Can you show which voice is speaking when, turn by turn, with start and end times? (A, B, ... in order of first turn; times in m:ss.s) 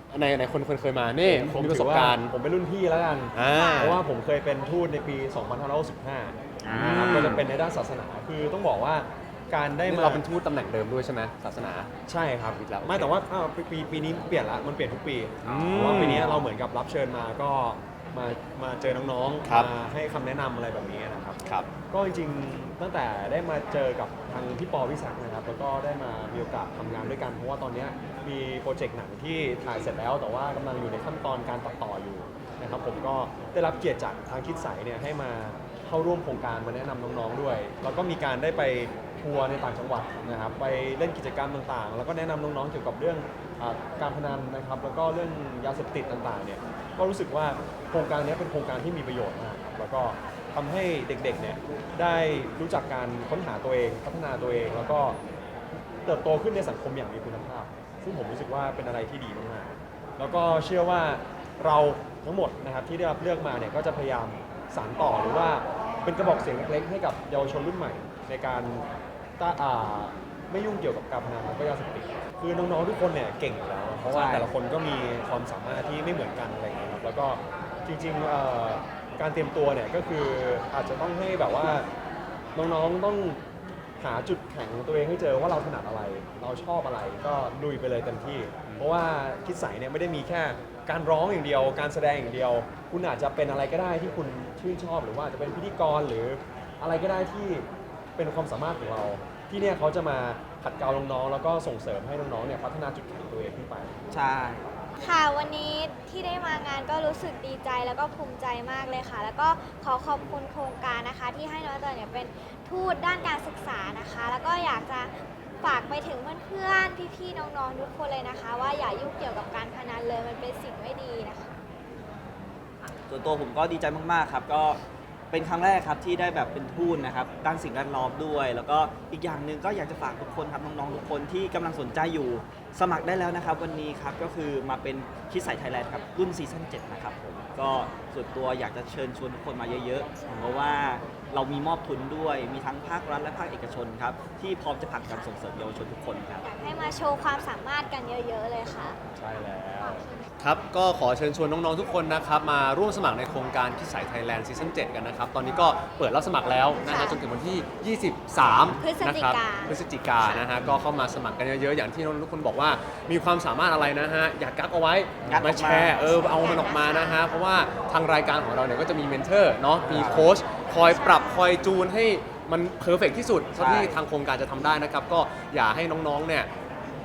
0:00.1-0:02.3 A
0:01.2-0:10.2 B
0:03.3-0:04.0 A
0:03.5-0:03.9 C
0:06.7-0:07.4 A
0:09.9-0:11.9 A
0:12.1-0:55.2 B
0:12.6-0:13.1 A
0:15.4-0:16.4 A
0:19.4-0:19.7 A
0:21.4-0:21.7 A
0:55.7-1:08.9 B
1:09.4-1:21.9 B
1:14.1-1:14.5 D
1:22.6-1:23.4 B
1:24.0-1:43.9 B
1:44.1-1:44.7 D
1:45.0-2:01.5 C
2:03.1-2:26.4 D
2:25.0-2:25.3 C
2:26.4-2:30.0 C
2:29.6-2:56.5 A
2:36.8-2:37.2 C
2:38.4-2:40.5 C
2:45.2-2:46.0 D
2:45.9-2:47.2 C
2:49.8-2:50.3 D
2:50.7-2:51.6 C
2:53.6-2:54.0 D